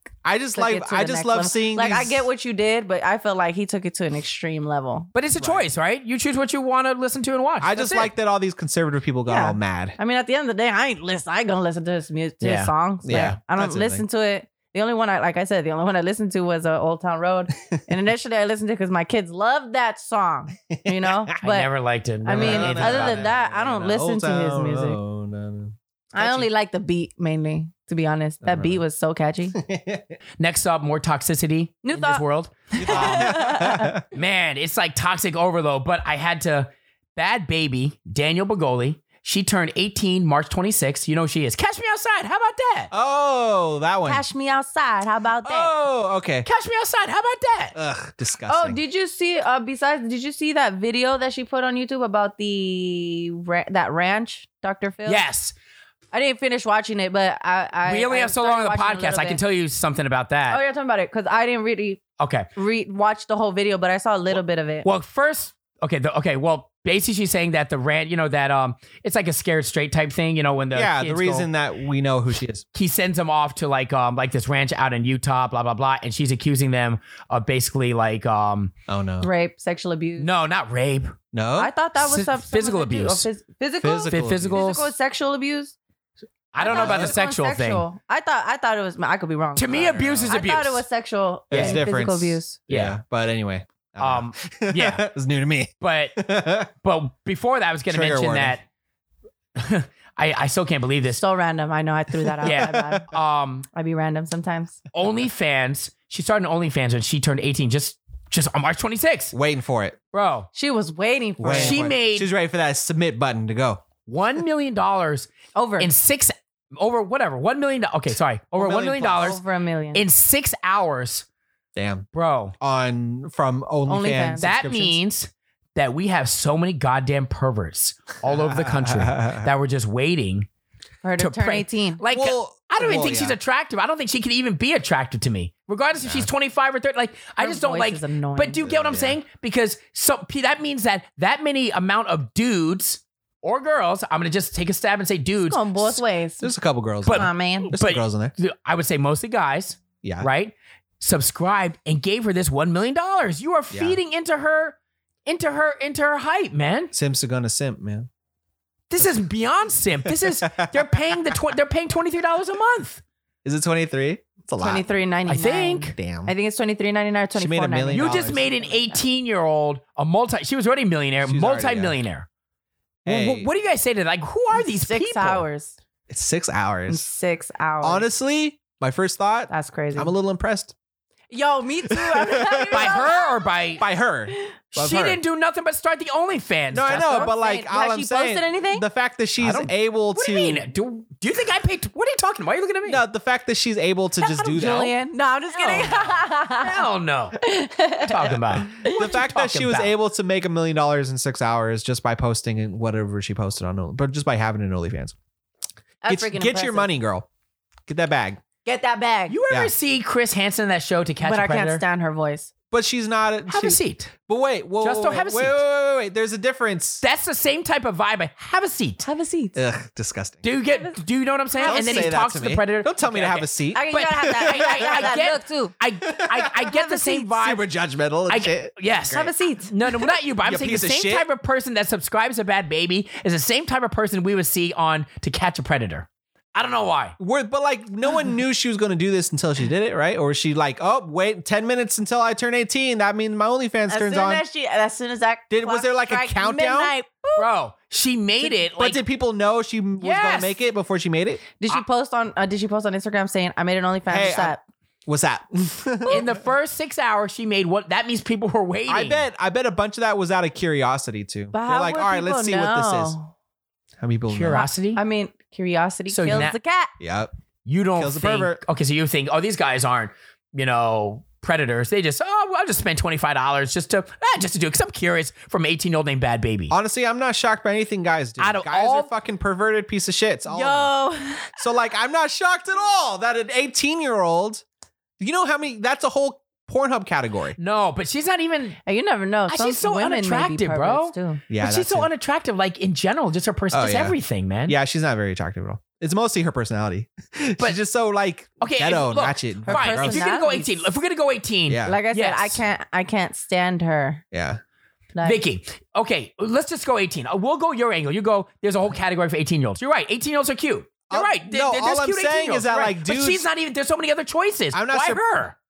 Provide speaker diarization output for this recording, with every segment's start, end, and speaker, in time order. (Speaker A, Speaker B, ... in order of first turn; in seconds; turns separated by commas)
Speaker A: 0.2-2.3, Speaker B: 0.5-5.1, Speaker C: 5.1-7.8, Speaker A: 5.4-5.7, Speaker A: 7.6-10.0, Speaker B: 9.3-21.7, Speaker C: 12.4-13.3, Speaker A: 13.0-14.0, Speaker A: 20.7-21.3, Speaker C: 21.4-23.3, Speaker B: 22.2-25.0, Speaker A: 22.3-26.5, Speaker B: 26.1-29.6, Speaker A: 28.4-28.8, Speaker A: 29.6-30.1, Speaker C: 30.4-33.4, Speaker B: 31.8-33.9, Speaker A: 32.8-34.0, Speaker C: 34.1-42.9, Speaker A: 42.9-44.2, Speaker B: 44.0-45.7, Speaker A: 45.4-46.5, Speaker C: 46.5-47.8, Speaker A: 47.8-48.8, Speaker B: 48.5-55.2, Speaker C: 55.0-55.5, Speaker B: 56.1-59.4, Speaker C: 57.9-60.6, Speaker B: 60.5-62.0, Speaker C: 62.2-62.5, Speaker B: 62.6-64.9, Speaker C: 64.8-71.5, Speaker A: 70.7-72.6, Speaker C: 72.7-78.7, Speaker A: 78.9-79.3, Speaker B: 79.2-80.3, Speaker C: 80.2-81.2, Speaker A: 81.3-81.7, Speaker B: 81.6-85.8, Speaker C: 82.0-83.3, Speaker A: 83.8-84.6, Speaker C: 84.1-84.9, Speaker C: 86.5-87.8, Speaker B: 86.6-92.6, Speaker A: 86.7-87.1, Speaker C: 89.6-90.8, Speaker A: 89.7-90.4, Speaker C: 91.5-91.8, Speaker A: 91.5-96.7, Speaker C: 92.7-93.0, Speaker C: 94.0-95.1, Speaker C: 95.8-96.2, Speaker C: 96.8-98.6, Speaker A: 97.9-98.6, Speaker C: 99.6-101.2, Speaker B: 101.2-103.1, Speaker A: 102.2-103.0, Speaker C: 102.4-103.7, Speaker B: 103.7-104.8, Speaker C: 104.9-109.3, Speaker A: 109.3-110.0, Speaker C: 110.1-110.5, Speaker B: 110.5-111.9, Speaker A: 111.4-113.8, Speaker C: 111.5-112.3, Speaker C: 114.1-119.4, Speaker B: 115.5-115.9, Speaker A: 118.6-119.4, Speaker B: 119.1-120.0, Speaker C: 119.9-121.3, Speaker A: 121.8-122.1, Speaker C: 122.1-122.5, Speaker A: 122.6-125.0, Speaker B: 123.9-124.5, Speaker C: 124.4-130.5, Speaker A: 128.2-129.5, Speaker B: 131.0-132.0, Speaker C: 131.2-146.0, Speaker A: 132.1-133.4, Speaker A: 136.0-136.3, Speaker B: 137.4-138.7, Speaker A: 138.6-139.2, Speaker B: 145.5-146.5, Speaker A: 146.4-148.3, Speaker C: 147.1-156.9, Speaker B: 147.1-147.7, Speaker A: 150.0-150.3, Speaker A: 153.7-154.0, Speaker A: 156.9-158.1, Speaker C: 158.9-163.0, Speaker A: 163.4-164.8, Speaker B: 164.6-169.0, Speaker C: 165.3-165.9, Speaker A: 165.9-166.3, Speaker A: 167.4-168.4, Speaker C: 167.9-172.3, Speaker A: 171.2-172.0, Speaker A: 173.1-173.5, Speaker C: 173.1-175.4, Speaker B: 174.7-175.8, Speaker A: 176.1-177.1, Speaker B: 176.9-178.1, Speaker A: 177.8-180.8, Speaker B: 179.5-180.1, Speaker B: 181.3-183.4, Speaker A: 181.9-183.0, Speaker C: 182.7-183.8, Speaker A: 183.8-185.2, Speaker C: 184.7-187.3, Speaker A: 186.7-190.7, Speaker B: 186.9-188.8, Speaker C: 189.4-193.0, Speaker A: 192.9-194.9, Speaker B: 194.2-196.9, Speaker C: 194.6-194.9, Speaker C: 195.5-197.4, Speaker B: 197.4-199.0, Speaker C: 198.0-199.9, Speaker A: 198.3-205.2, Speaker B: 206.0-206.9, Speaker A: 206.1-207.3, Speaker A: 207.9-208.4, Speaker B: 208.7-209.4, Speaker C: 209.3-211.8, Speaker B: 211.2-212.5, Speaker A: 212.7-217.0, Speaker C: 213.5-214.1, Speaker C: 214.8-215.6, Speaker C: 217.0-219.1, Speaker B: 219.0-219.6, Speaker A: 219.6-220.5, Speaker C: 220.4-227.6, Speaker B: 220.7-221.0, Speaker B: 221.5-222.1, Speaker A: 221.6-225.2, Speaker B: 223.7-225.7, Speaker A: 226.1-226.7, Speaker B: 226.6-227.3, Speaker A: 227.4-229.3, Speaker C: 228.3-237.2, Speaker B: 229.1-229.7, Speaker A: 229.9-231.3, Speaker A: 237.2-244.4, Speaker B: 243.9-247.5, Speaker A: 245.5-246.9, Speaker C: 247.4-249.0, Speaker A: 248.8-251.4, Speaker C: 250.0-250.6, Speaker B: 251.6-254.6, Speaker A: 254.1-256.3, Speaker C: 256.1-259.2, Speaker A: 258.9-263.2, Speaker B: 261.5-263.3, Speaker A: 264.0-264.7, Speaker C: 264.3-265.0, Speaker B: 264.5-266.9, Speaker C: 266.1-266.5, Speaker A: 267.0-267.3, Speaker C: 267.7-276.7, Speaker A: 268.0-268.6, Speaker A: 276.7-280.9, Speaker C: 278.4-279.1, Speaker B: 280.5-281.6, Speaker A: 281.6-284.6, Speaker A: 285.2-287.6, Speaker C: 287.6-288.8, Speaker B: 288.9-291.4, Speaker C: 289.5-294.8, Speaker A: 291.5-292.1, Speaker A: 293.7-294.2, Speaker A: 294.7-300.3, Speaker C: 298.6-302.6, Speaker B: 299.7-300.9, Speaker A: 301.7-302.0, Speaker B: 301.9-304.2, Speaker A: 304.3-304.6, Speaker B: 305.1-305.4, Speaker C: 305.2-315.6, Speaker A: 311.1-313.5, Speaker A: 314.7-315.2